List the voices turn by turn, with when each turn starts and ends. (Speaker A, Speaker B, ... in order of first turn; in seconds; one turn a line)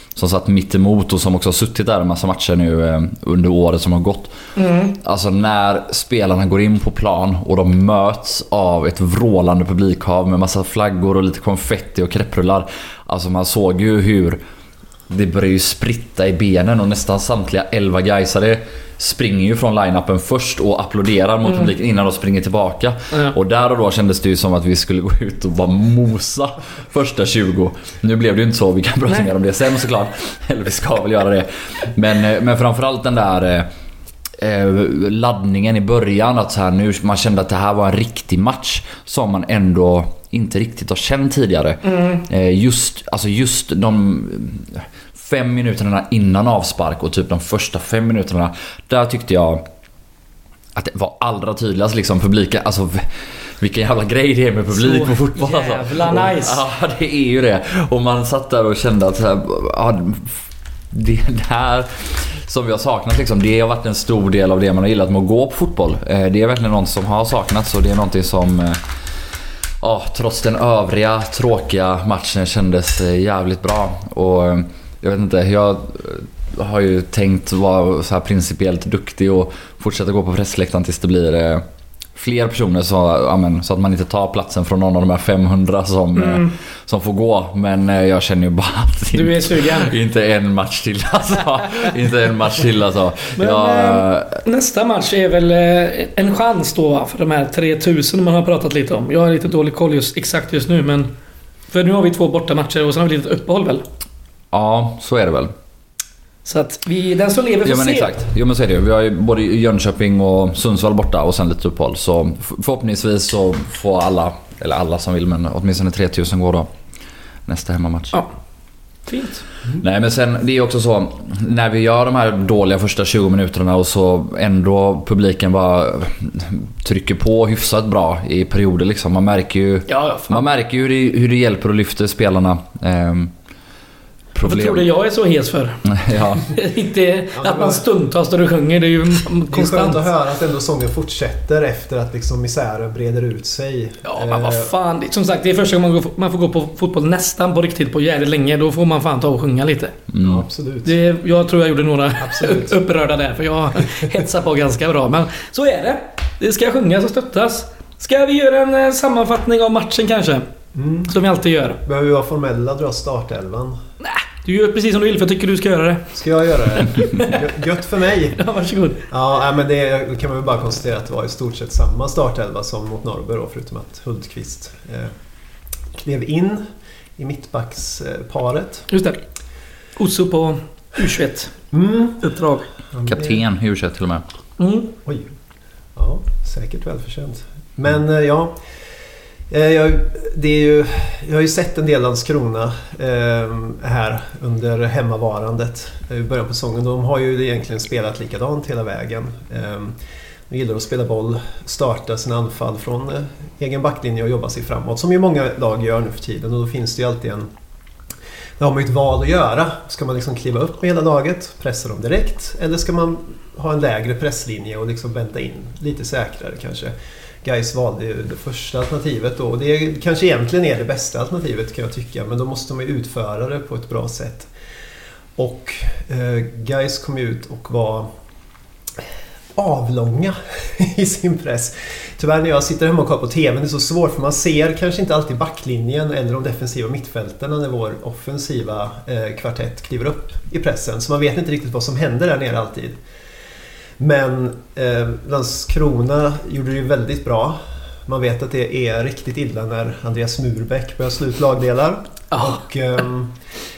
Speaker A: 0.1-14.4
Speaker B: 4.5-5.0
Speaker A: 15.1-33.7
Speaker A: 34.4-49.6
Speaker B: 41.8-42.2
Speaker A: 50.7-68.8
Speaker B: 54.7-56.6
Speaker A: 69.8-94.4
Speaker B: 86.2-86.5
Speaker B: 89.1-89.9
Speaker B: 93.4-101.1
Speaker B: 101.7-103.8
Speaker A: 104.5-105.5
Speaker B: 106.4-108.1
Speaker A: 107.6-116.7
Speaker A: 117.5-118.2
Speaker B: 119.0-119.4
Speaker A: 119.8-133.3
Speaker B: 129.9-130.4
Speaker A: 134.3-134.8
Speaker B: 134.4-140.0
Speaker A: 135.8-136.5
Speaker C: 137.3-137.8
Speaker C: 139.5-144.7
Speaker B: 144.1-149.9
Speaker A: 150.1-150.4
Speaker C: 150.2-150.9
Speaker B: 150.8-160.4
Speaker C: 152.2-152.8
Speaker C: 160.7-161.1
Speaker B: 161.1-161.8
Speaker C: 161.8-163.8
Speaker B: 164.0-166.1
Speaker C: 166.1-168.4
Speaker B: 166.8-167.5
Speaker B: 168.4-169.0
Speaker C: 169.1-175.1
Speaker C: 175.9-178.9
Speaker B: 178.9-179.2
Speaker B: 179.9-181.5
Speaker C: 181.7-182.2
Speaker B: 182.2-182.7
Speaker C: 182.9-183.4
Speaker A: 183.1-184.2
Speaker B: 184.6-184.9
Speaker C: 185.0-185.3
Speaker C: 185.9-188.5
Speaker C: 189.5-200.0
Speaker C: 200.5-207.5
Speaker C: 208.6-224.5
Speaker C: 225.4-228.1
Speaker C: 229.5-243.0
Speaker C: 244.0-253.4
Speaker B: 252.3-252.6